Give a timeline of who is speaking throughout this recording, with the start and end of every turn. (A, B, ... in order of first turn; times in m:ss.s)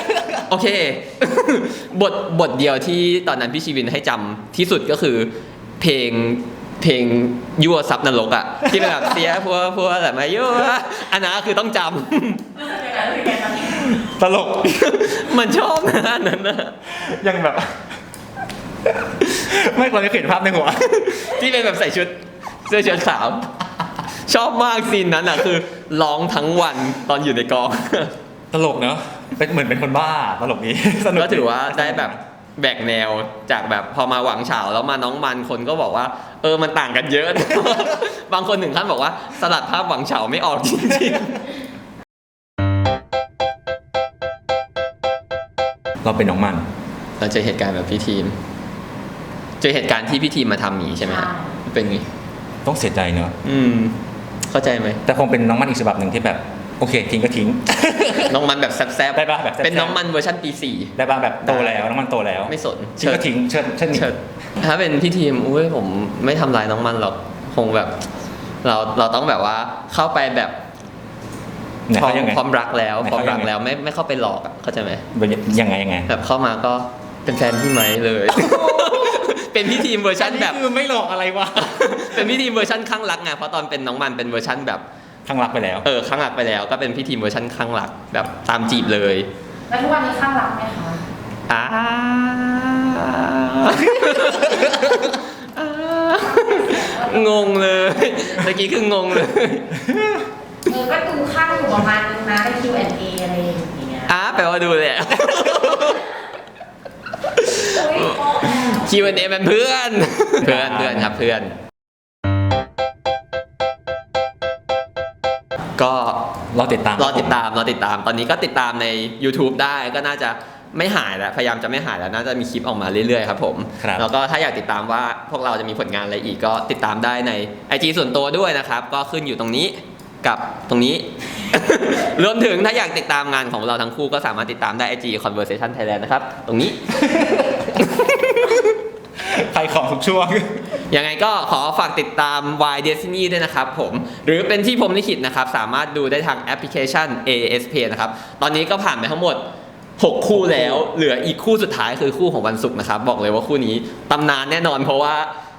0:00.4-0:12.7 A
0:12.7-0:13.6 B
0:13.5-0:15.2 C
0:14.8-0:16.8 A
0:16.9-0:17.8 C
0:19.2-0:21.2 C
0:21.1-0:23.5 A
0:24.3-0:28.1 A
0:28.5-0:32.2 C
0:31.2-0:41.4 A
0:46.0-0:46.7 C
0:47.2-0:48.4 A
0:49.6-0:52.1 A
0:51.0-0:51.5 B
0:52.6-0:53.4 C
0:53.4-0:54.0 A
0:54.5-0:55.0 A
0:55.1-0:58.4 C
0:58.3-1:01.8 A
0:59.1-1:00.0 C
1:01.0-1:04.1 C
1:02.5-1:03.3 A
1:03.9-1:08.0 A
1:08.6-1:10.6 A
1:11.9-1:12.4 C
1:11.9-1:15.0 A
1:13.0-1:13.5 C
1:15.1-1:16.1 C
1:16.1-1:20.6 A
1:18.3-1:19.3 C
1:20.1-1:22.4 C
1:21.6-1:24.8 A
1:25.3-1:25.9 C
1:25.8-1:29.3 A
1:29.7-1:31.0 B
1:31.5-1:39.8 A
1:36.2-1:38.0 B
1:40.7-1:44.1 B
1:44.0-1:46.2 A
1:47.2-1:51.6 A
1:47.6-1:49.0 B
1:50.4-1:51.1 C
1:55.8-1:56.3 A
1:56.5-1:57.4 C
1:57.0-2:17.0 A
2:17.0-2:17.8 C
2:17.7-2:18.6 A
2:19.2-2:20.7 C
2:20.9-2:29.4 A
2:30.0-2:35.3 A
2:30.3-2:30.9 C